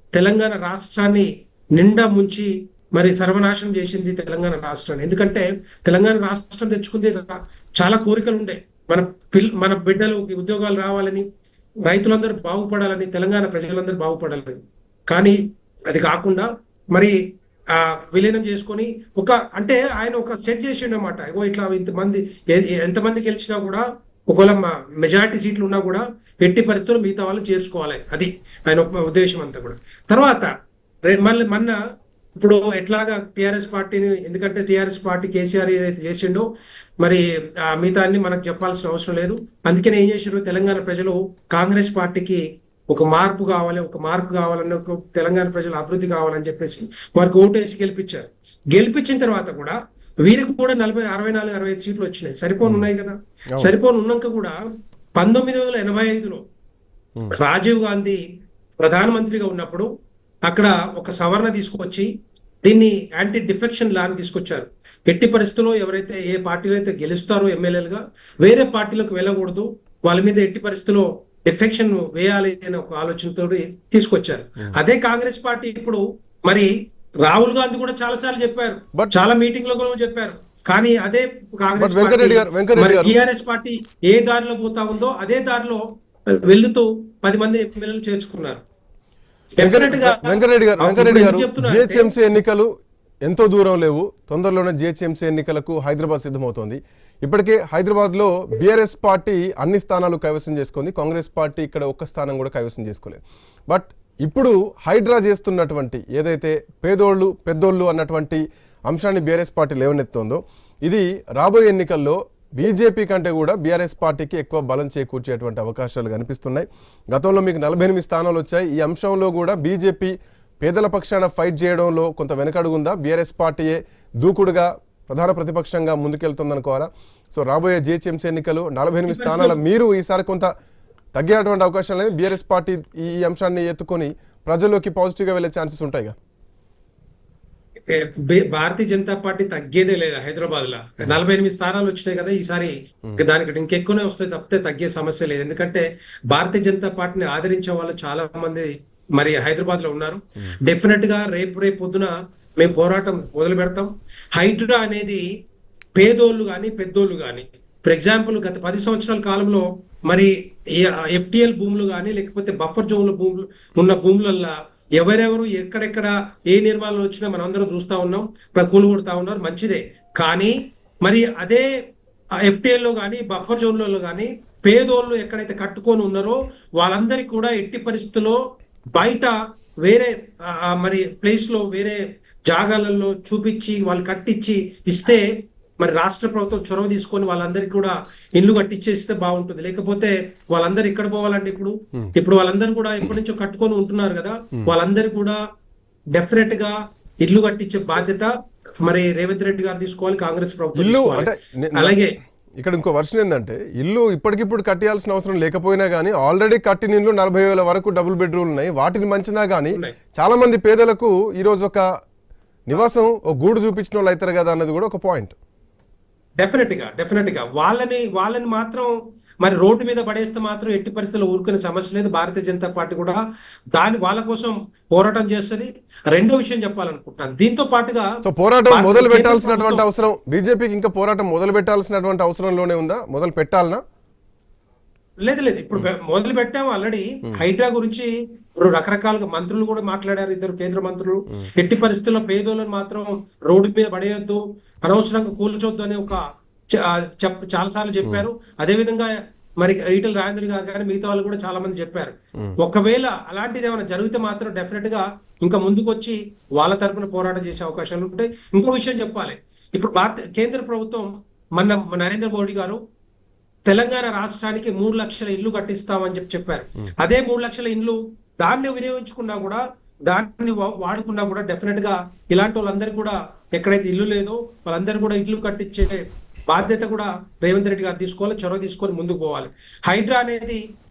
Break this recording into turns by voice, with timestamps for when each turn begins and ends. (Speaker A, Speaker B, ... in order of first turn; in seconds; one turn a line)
Speaker A: 0.1-11.2
Speaker A: 11.9-17.2
Speaker A: 17.7-30.5
Speaker A: 31.1-31.8
Speaker A: 32.4-36.5
Speaker A: 37.0-54.6
Speaker A: 55.2-56.4
Speaker A: 57.3-58.2
Speaker A: 58.8-59.9
Speaker A: 60.5-62.1
Speaker A: 62.6-88.6
Speaker B: 81.8-83.2
Speaker A: 89.6-92.1
Speaker B: 89.6-92.7
Speaker B: 93.3-130.5
Speaker A: 129.1-129.6
Speaker B: 131.2-136.2
Speaker A: 137.9-155.2
Speaker A: 156.0-171.7
Speaker A: 172.4-178.4
Speaker A: 178.9-195.4
Speaker A: 196.2-198.3
Speaker A: 198.8-202.1
Speaker B: 200.8-202.0
Speaker B: 202.6-211.8
Speaker A: 209.7-210.0
Speaker B: 212.7-215.3
Speaker A: 216.4-223.2
Speaker A: 223.8-229.9
Speaker B: 228.2-233.8
Speaker A: 235.2-262.8
Speaker A: 263.7-280.6